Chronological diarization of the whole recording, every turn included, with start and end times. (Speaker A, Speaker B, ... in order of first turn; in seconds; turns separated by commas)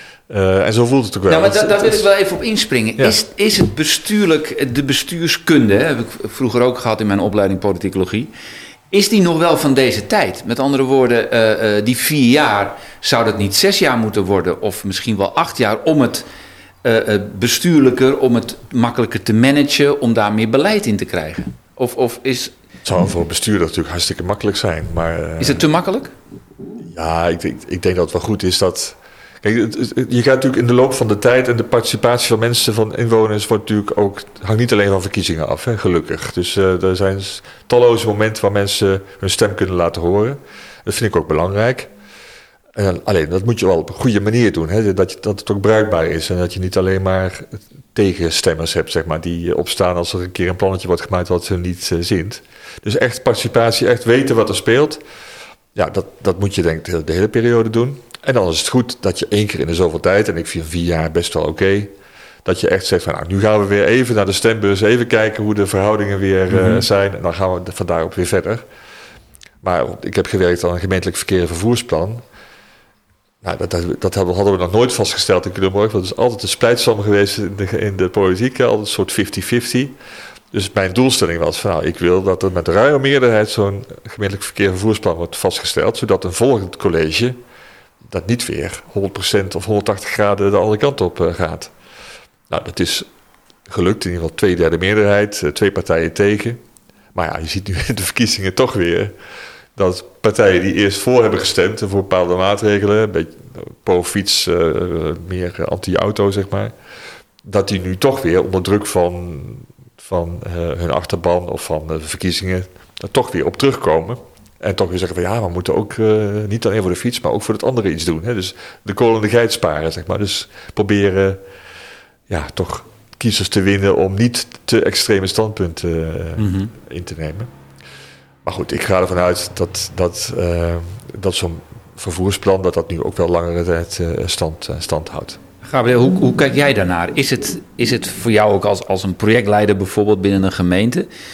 Speaker A: 0.3-2.0, Speaker B: 1.3-8.3, Speaker B: 8.9-16.2, Speaker B: 16.8-22.5, Speaker A: 22.8-25.6, Speaker B: 25.4-26.1, Speaker A: 26.8-41.9, Speaker A: 42.7-55.0, Speaker A: 55.7-61.9, Speaker A: 62.4-68.6, Speaker A: 69.6-72.2, Speaker A: 73.4-80.0, Speaker A: 80.5-87.4, Speaker A: 88.1-91.7, Speaker A: 92.5-93.1, Speaker A: 93.7-96.6, Speaker A: 97.1-99.1, Speaker A: 99.8-106.7, Speaker A: 107.4-121.4, Speaker A: 122.3-127.5, Speaker B: 126.4-126.7, Speaker A: 128.4-135.4, Speaker B: 135.6-141.1